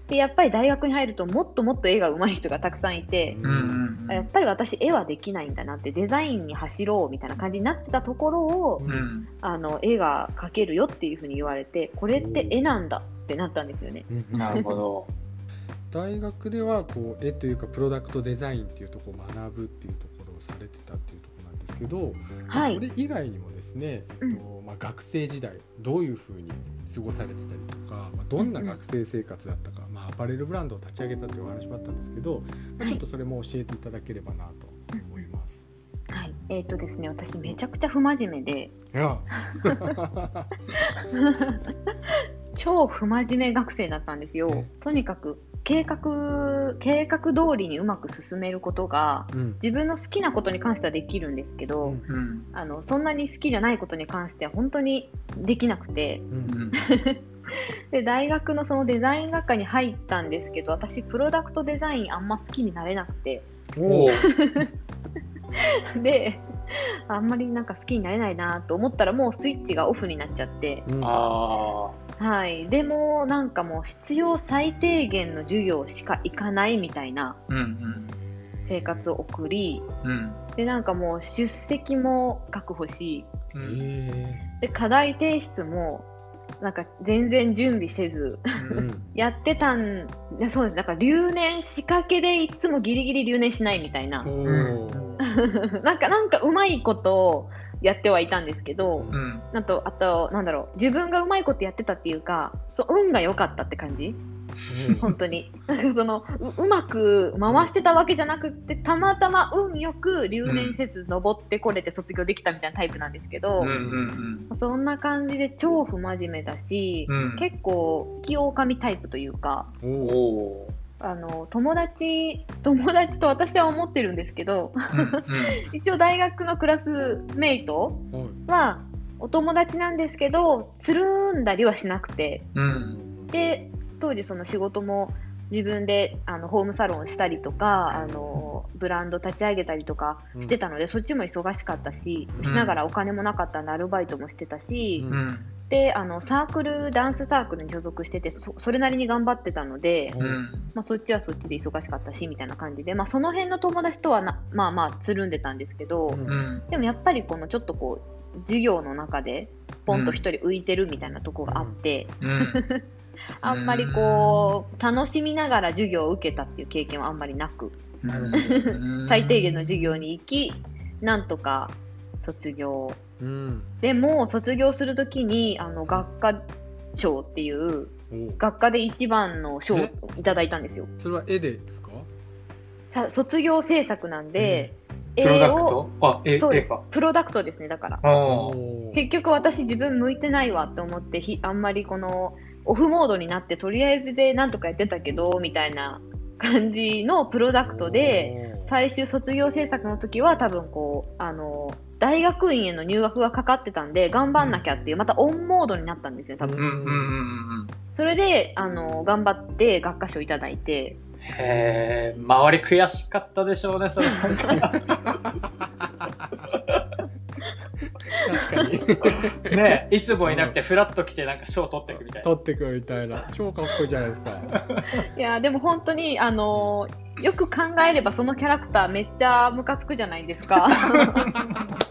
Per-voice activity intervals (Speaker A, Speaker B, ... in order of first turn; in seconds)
Speaker A: 0.1-3.4, 4.1-8.8, 9.4-14.7, 22.5-22.8, 28.4-28.8, 35.0-35.2, 36.1-38.8, 39.5-40.0, 40.8-41.6, 42.5-52.0, 52.5-63.5, 64.2-64.7, 65.5-70.9, 72.2-77.4, 78.7-79.9, 80.6-83.3, 84.6-86.1, 86.6-88.5, 89.1-94.3, 95.2-104.2, 105.0-113.7, 114.5-119.7, 121.0-132.5, 133.3-145.1, 145.7-150.2, 150.8-162.8, 163.4-173.0, 173.8-180.9, 182.9-185.8, 186.4-188.0, 188.9-206.6, 208.0-211.0, 218.3-218.7, 225.1-231.4
Speaker B: 3.3-3.8, 8.8-9.1, 12.2-12.6, 14.1-14.8, 15.9-35.7, 38.9-40.6, 49.3-49.6, 56.3-56.6, 63.7-64.2, 70.9-71.2, 78.4-79.1, 83.6-84.5, 88.7-89.1, 94.2-95.3, 99.0-99.2, 104.7-105.1, 113.6-114.2, 117.1-117.4, 119.8-120.2, 128.1-128.4, 132.7-133.3, 137.9-138.5, 142.3-142.6, 145.0-145.3, 150.1-150.4, 156.1-156.4, 161.5-161.8, 168.1-168.7, 173.2-173.8, 178.1-178.4, 181.0-182.1, 184.4-184.7, 188.3-189.1, 197.6-198.7, 206.4-207.1, 211.3-211.8, 215.4-216.5, 218.1-220.6, 221.9-224.6, 231.0-231.7
Speaker C: 3.4-4.3, 8.9-9.3, 14.3-15.1, 52.1-52.5, 56.5-56.8, 63.9-64.3, 71.0-72.0, 77.5-78.1, 80.0-80.4, 83.5-83.9, 88.5-88.8, 94.4-95.0, 99.1-99.5, 104.8-105.0, 110.4-110.8, 113.6-114.5, 117.1-117.4, 120.0-120.7, 124.9-125.7, 132.6-133.0, 142.4-142.8, 145.1-145.5, 150.2-150.7, 156.3-156.7, 159.9-160.2, 162.2-162.6, 163.4-164.6, 168.0-170.0, 185.2-186.8, 188.0-188.6, 206.6-207.7, 211.3-215.3, 219.1-222.3, 224.5-224.8